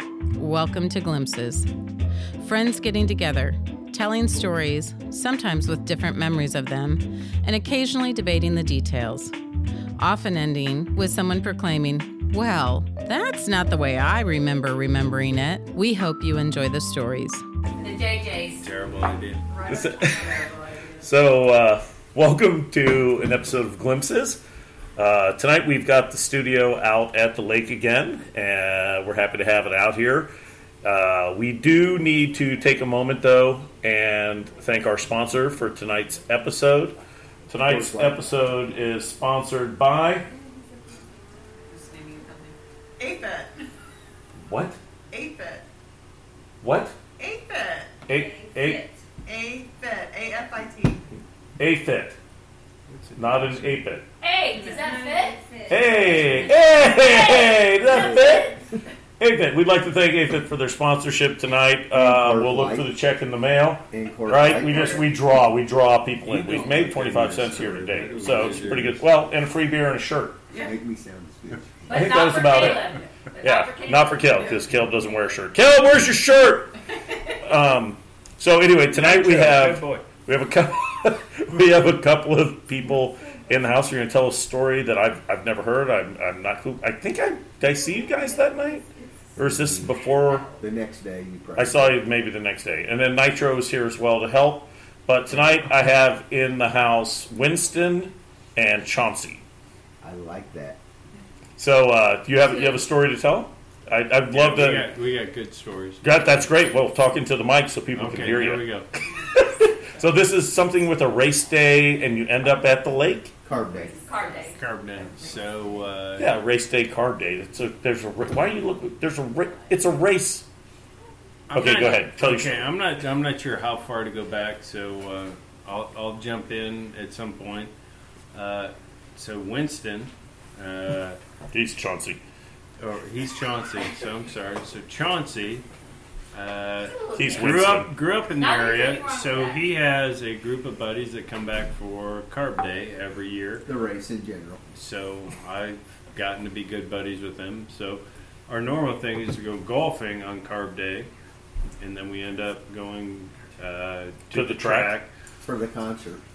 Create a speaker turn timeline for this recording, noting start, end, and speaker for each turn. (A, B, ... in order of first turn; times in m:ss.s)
0:00.4-0:01.7 A
0:02.4-0:09.3 A
0:10.0-0:17.4 A
0:17.8-0:18.6 B
0:18.6-0:19.4 C
0:19.5-0:21.1 D
0:19.7-0:20.5 E
0:21.0-0:24.4 E
0:25.0-0:30.3 E
0:30.8-0:37.0 E
0:37.5-0:40.3 E
0:37.6-0:38.3 F
0:41.6-0:42.0 D
0:43.0-0:43.6 D
0:44.4-0:44.8 E
0:45.1-0:45.6 D
0:46.6-0:47.0 E
0:47.2-0:51.0 D
0:48.1-0:48.9 E
0:51.6-0:52.2 E
0:52.9-0:53.8 C
0:53.2-0:54.0 E
0:54.2-0:55.4 B
0:54.6-0:56.8 D
0:55.7-0:58.6 E
0:56.8-0:58.5 B
0:57.9-0:58.5 F
0:59.2-1:10.5 E
1:01.9-1:02.9 F
1:03.9-1:05.1 F
1:06.2-1:09.0 C
1:10.5-1:12.3 F
1:11.9-1:14.5 B
1:11.9-1:16.8 E
1:17.4-1:30.5 E
1:18.9-1:20.1 C
1:27.8-1:29.5 D
1:29.6-1:29.8 F
1:30.6-1:32.0 F
1:31.6-1:39.4 E
1:40.0-1:40.8 F
1:41.6-1:44.9 E
1:44.3-1:46.3 C
1:46.0-1:48.7 E
1:47.9-1:48.9 C
1:49.3-1:53.4 E
1:53.4-1:54.0 F
1:53.8-1:54.6 D
1:54.0-1:54.6 B
1:54.5-1:56.3 C
1:56.2-2:00.5 E
2:01.5-2:07.7 C
2:01.5-2:02.6 E
2:08.3-2:11.2 C
2:11.5-2:12.2 E
2:12.8-2:15.6 C
2:16.3-2:23.7 C
2:16.8-2:19.7 B
2:17.1-2:17.9 E
2:23.6-2:24.6 F
2:24.7-2:31.1 C
2:31.8-2:35.1 C
2:34.3-2:34.9 E
2:35.4-2:36.2 F